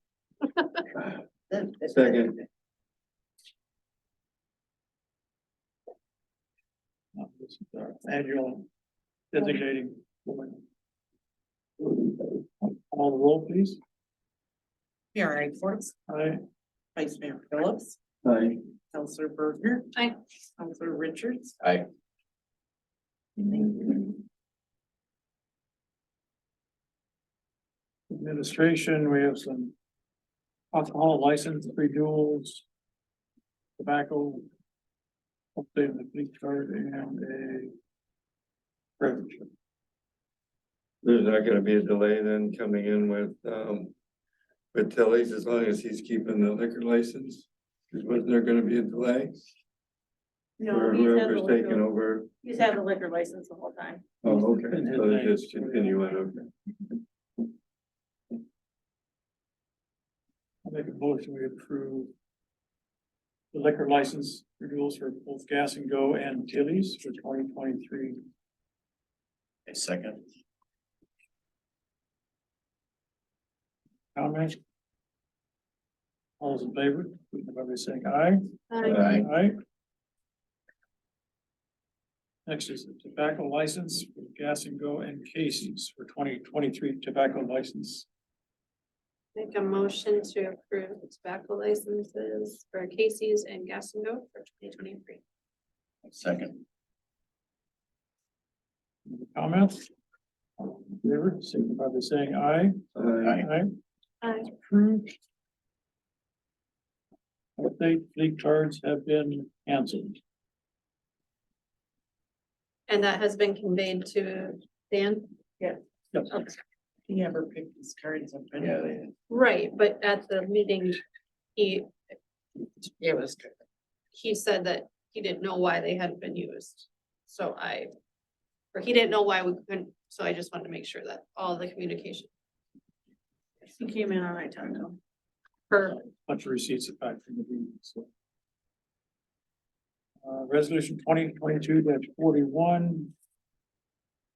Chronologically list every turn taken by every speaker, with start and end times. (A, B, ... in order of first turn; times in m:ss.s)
0:00.5-0:00.8 A
0:01.5-0:01.9 B
0:01.9-0:02.4 C
0:07.1-0:08.7 D
0:09.3-0:10.6 D
0:12.6-0:13.8 D
0:15.1-0:15.9 B
0:16.1-0:16.4 D
0:16.9-0:18.0 B
0:18.2-0:18.6 C
0:18.9-0:19.9 B
0:20.6-0:21.5 B
0:21.6-0:21.8 E
0:23.6-0:24.1 B
0:28.1-0:29.7 D
0:30.7-0:32.6 D
0:33.8-0:34.4 D
0:35.6-0:37.7 D
0:39.0-0:39.5 D
0:41.0-0:43.9 C
0:44.7-0:49.5 C
0:50.6-0:51.8 F
0:50.7-0:52.3 C
0:52.4-0:54.1 F
0:54.2-0:56.5 C
0:54.2-0:56.2 D
1:00.6-1:02.1 D
1:03.5-1:08.2 D
1:09.7-1:10.2 E
1:14.1-1:14.6 D
1:16.4-1:19.6 D
1:18.7-1:19.1 A
1:18.9-1:19.1 C
1:18.9-1:19.3 E
1:22.4-1:28.1 D
1:29.4-1:35.2 A
1:36.0-1:36.6 E
1:39.1-1:39.9 D
1:40.6-1:43.7 D
1:42.9-1:43.3 C
1:43.2-1:43.5 E
1:44.2-1:44.5 A
1:44.6-1:45.2 D
1:47.6-1:50.2 D
1:52.9-1:55.3 A
1:57.1-1:58.8 B
1:58.6-1:59.1 E
1:59.3-2:01.0 A
2:01.6-2:01.9 A
2:03.0-2:03.5 B
2:04.1-2:07.9 A
2:08.7-2:12.3 A
2:13.7-2:15.0 F
2:15.7-2:16.0 A
2:15.9-2:18.1 D
2:20.2-2:23.1 D